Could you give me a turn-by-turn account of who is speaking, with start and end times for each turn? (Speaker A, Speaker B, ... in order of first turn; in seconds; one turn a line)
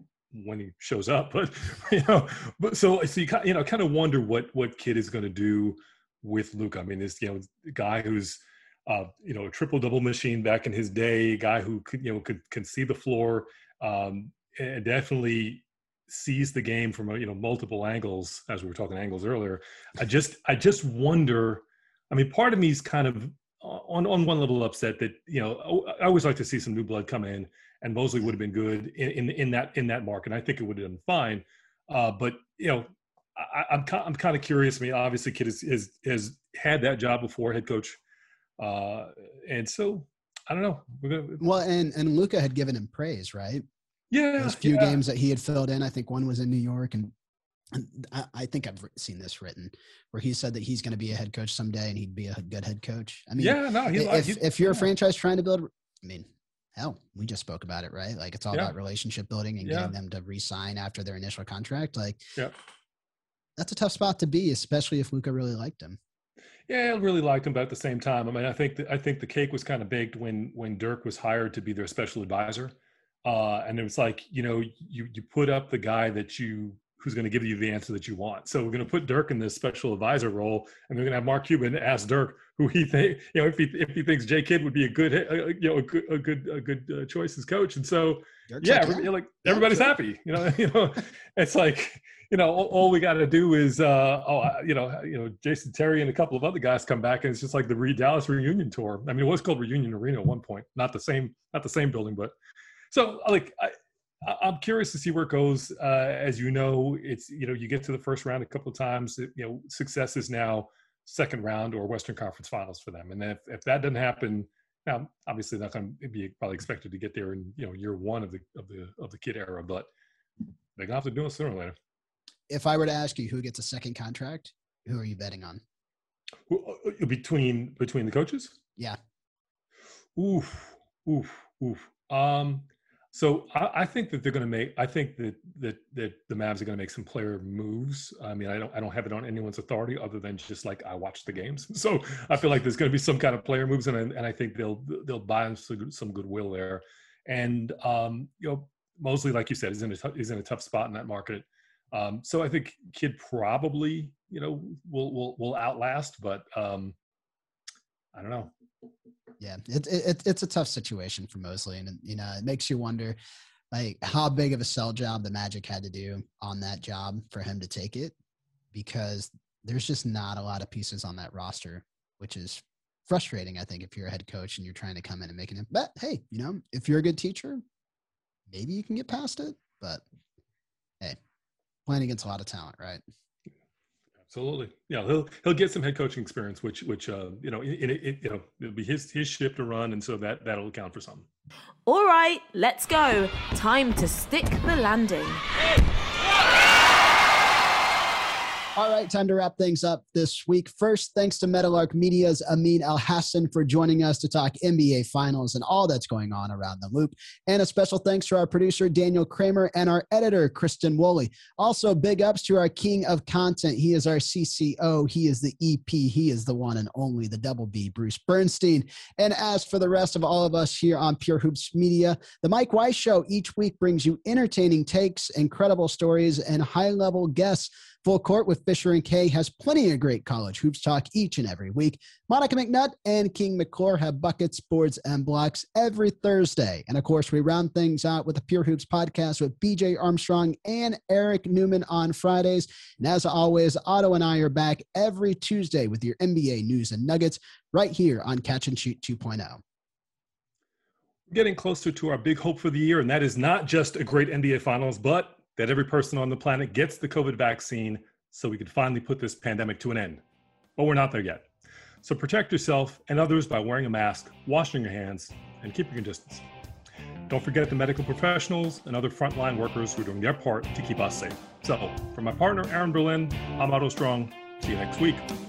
Speaker A: 0.3-38.0
Speaker A: 38.6-41.4
Speaker B: 41.4-43.6
Speaker A: 44.1-45.0
Speaker B: 44.4-47.1
Speaker B: 47.7-62.2
Speaker A: 53.4-54.9
Speaker A: 59.6-59.9
Speaker B: 63.6-66.0
Speaker A: 66.7-72.7
Speaker A: 73.2-102.3
Speaker B: 88.5-89.9
Speaker A: 102.9-119.9
Speaker A: 120.8-121.8
Speaker B: 122.5-125.6
Speaker A: 126.5-128.5
Speaker A: 130.2-156.9
Speaker A: 158.1-158.5
Speaker B: 159.4-163.2
Speaker B: 163.7-168.1
Speaker B: 168.7-177.6
Speaker B: 178.5-180.0
Speaker B: 181.9-183.0
Speaker A: 184.3-191.3
Speaker C: 191.8-195.4
Speaker B: 198.8-249.6
Speaker A: 251.3-260.2
Speaker A: 260.8-261.5
Speaker A: 262.0-266.4
Speaker A: 267.3-275.2